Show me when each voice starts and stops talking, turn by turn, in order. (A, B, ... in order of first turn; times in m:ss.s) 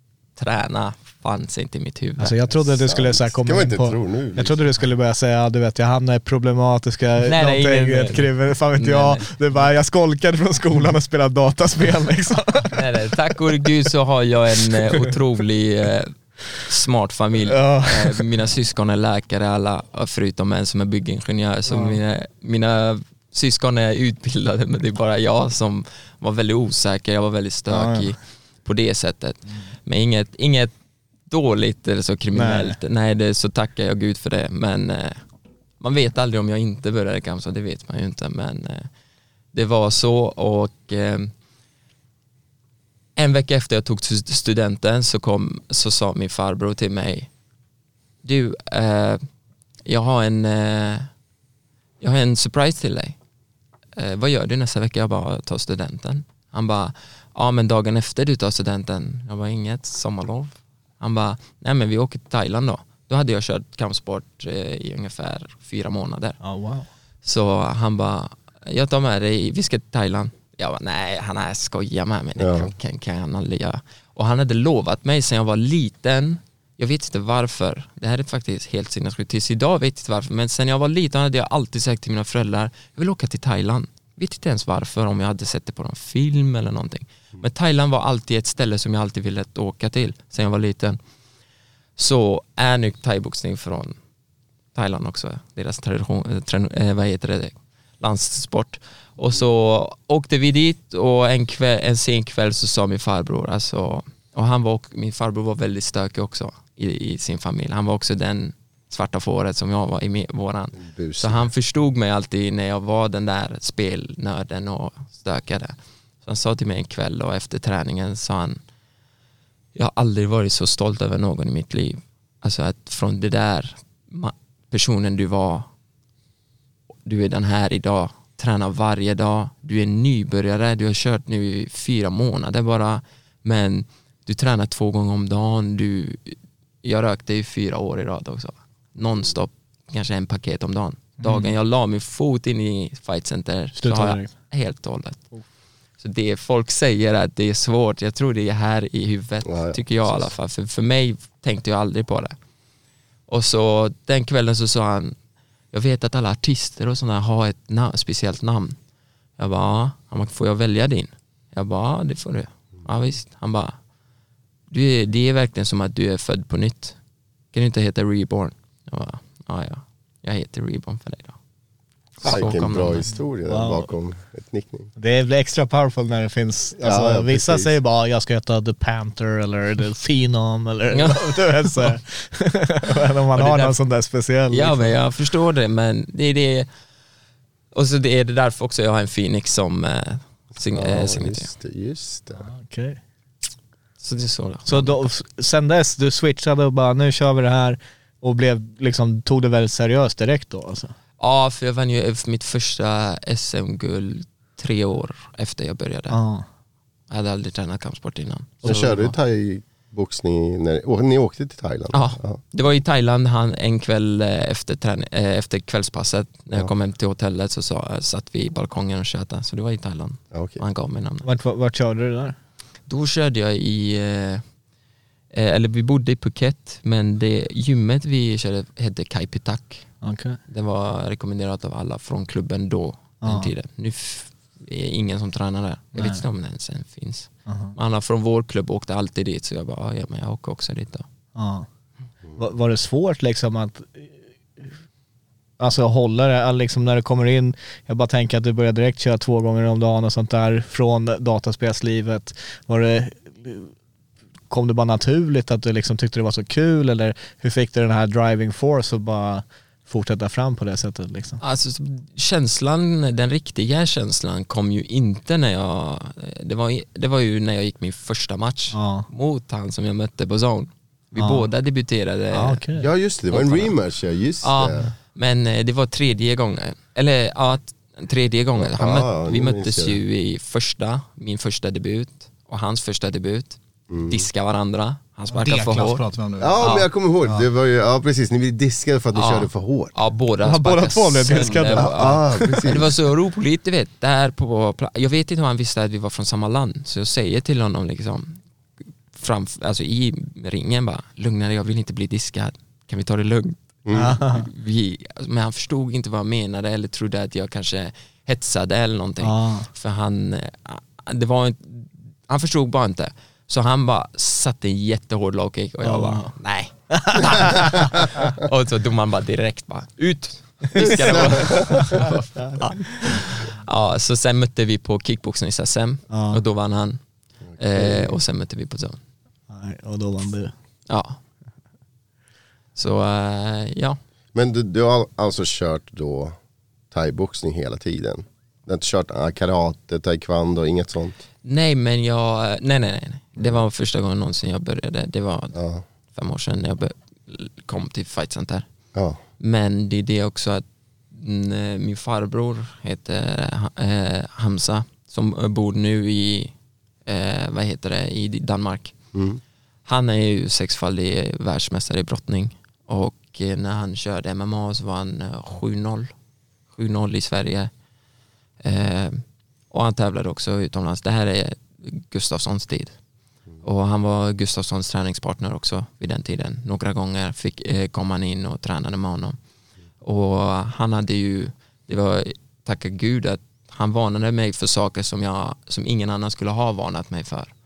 0:00.4-0:02.5 A
0:02.2-0:12.8 B
0:02.8-0:04.6 C
0:07.2-0:09.7 A
0:12.7-0:30.7 A
0:17.5-0:18.3 B
0:21.7-0:22.0 B
0:27.7-0:28.1 B
0:31.3-0:35.3 A
0:32.3-0:32.8 B
0:35.8-0:38.9 A
0:39.5-0:41.3 A
0:43.2-0:47.3 A
0:48.2-0:49.2 A
0:49.9-0:51.1 A
0:52.0-0:53.2 A
0:54.0-1:06.4 A
1:06.4-1:06.9 B
1:07.2-1:31.0 A
1:12.4-1:12.7 C
1:32.0-1:34.0 A
1:34.8-1:58.6 A
1:50.8-1:51.5 C
1:59.8-2:05.7 A
2:07.0-2:25.3 A
2:21.2-2:21.5 B
2:23.8-2:24.3 B
2:26.0-2:32.4 A
2:29.4-2:30.3 C
2:33.3-2:35.2 A
2:35.7-2:38.8 A
2:39.4-2:43.8 A
2:44.7-2:47.0 A
2:47.5-2:51.4 A
2:52.2-2:53.1 A
2:52.2-2:54.9 C
2:53.5-2:53.9 B
2:55.0-3:04.9 B
2:56.8-2:57.8 C
3:00.9-3:01.9 A
3:03.4-3:03.8 A
3:04.5-3:06.7 A
3:07.7-3:11.5 A
3:10.7-3:12.5 C
3:12.4-3:13.0 B
3:14.0-3:15.0 A
3:14.7-3:20.9 B
3:21.2-3:26.2 A
3:26.1-3:26.4 B
3:27.1-3:29.2 A
3:28.6-3:32.4 C
3:31.9-3:41.3 A
3:40.3-3:40.6 C
3:41.2-3:42.4 B
3:42.9-3:44.4 A
3:45.3-3:49.9 A
3:50.0-3:50.4 B
3:50.5-4:01.0 A
3:53.2-3:53.5 B
3:55.9-3:56.2 B
3:57.5-3:57.8 B
4:01.4-4:01.7 B
4:02.4-4:04.7 B
4:05.6-4:13.7 B
4:14.5-4:21.4 B
4:21.4-4:32.6 A
4:28.7-4:29.1 B
4:31.2-4:31.5 B
4:32.3-4:32.9 B
4:32.8-4:34.9 C
4:33.3-4:33.8 A
4:34.4-4:46.0 A
4:38.6-4:40.0 C
4:43.9-4:44.2 C
4:45.3-4:47.5 D
4:46.4-4:49.9 C
4:46.6-4:46.9 A
4:49.1-4:58.4 A
4:50.4-4:51.9 B
4:51.5-4:52.9 C
4:59.1-5:27.0 A
5:03.9-5:04.1 C
5:03.9-5:04.5 B
5:09.2-5:09.7 B
5:15.8-5:16.3 B
5:16.9-5:17.9 B
5:20.8-5:23.2 B
5:20.8-5:22.1 C
5:26.1-5:26.4 B
5:27.6-5:29.0 A
5:27.7-5:28.2 C
5:29.5-5:30.5 B
5:30.9-5:31.2 A
5:32.8-5:34.0 A
5:34.3-5:36.4 C
5:36.9-5:41.2 C
5:41.4-5:48.7 A
5:45.5-5:45.8 C
5:49.4-5:56.5 A
5:57.1-5:59.0 A
5:59.1-5:59.4 C
5:59.9-6:06.1 A
6:06.7-6:07.7 A
6:08.6-6:13.0 A
6:13.6-6:19.4 A
6:20.0-6:27.5 A